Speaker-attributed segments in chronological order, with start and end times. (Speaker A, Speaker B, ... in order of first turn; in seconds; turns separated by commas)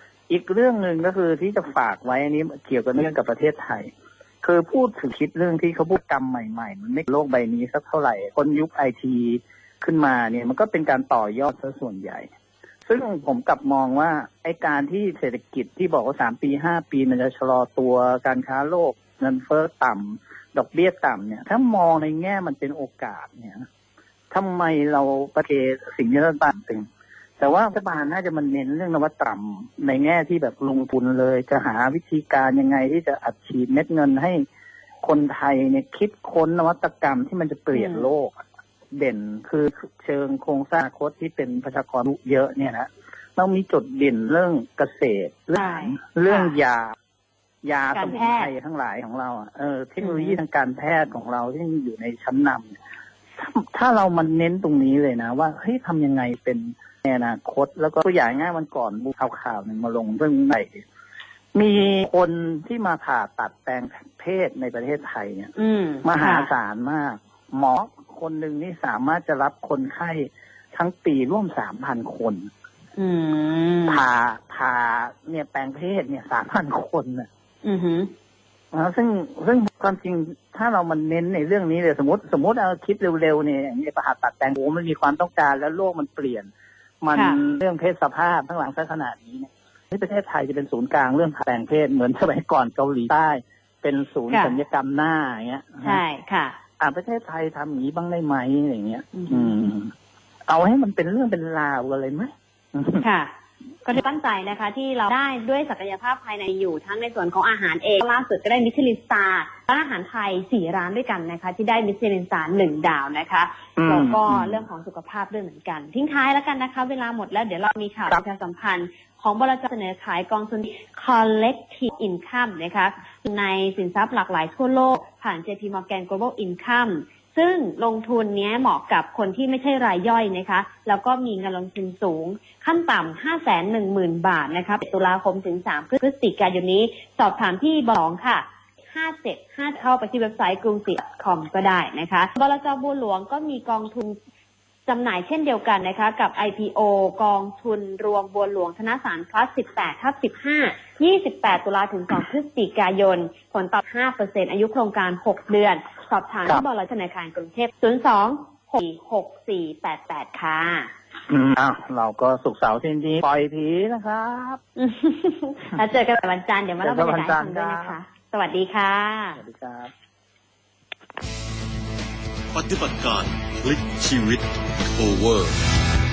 Speaker A: 0.3-3.9, Speaker A: 4.4-12.3, Speaker A: 12.8-23.6, Speaker A: 24.3-26.9, Speaker A: 27.4-34.5, Speaker A: 35.0-38.4, Speaker B: 37.7-38.1, Speaker A: 38.9-46.9, Speaker B: 45.5-46.6, Speaker A: 47.6-52.8, Speaker B: 47.9-48.5, Speaker B: 50.0-50.4, Speaker A: 53.4-60.8, Speaker A: 61.5-65.5, Speaker B: 65.6-66.5, Speaker A: 66.0-72.5, Speaker B: 73.0-74.0, Speaker A: 73.9-77.3, Speaker B: 77.6-78.1, Speaker A: 78.7-86.5, Speaker A: 87.0-96.0, Speaker B: 87.1-87.4, Speaker B: 94.3-94.6, Speaker B: 95.8-96.6, Speaker A: 96.8-99.9, Speaker B: 99.1-99.5, Speaker A: 100.5-103.0, Speaker B: 103.0-103.3, Speaker B: 103.8-144.2, Speaker A: 113.8-114.7, Speaker B: 144.9-160.9, Speaker A: 161.3-164.6, Speaker B: 164.8-169.4, Speaker A: 166.8-168.0, Speaker A: 169.3-169.9, Speaker C: 172.5-175.6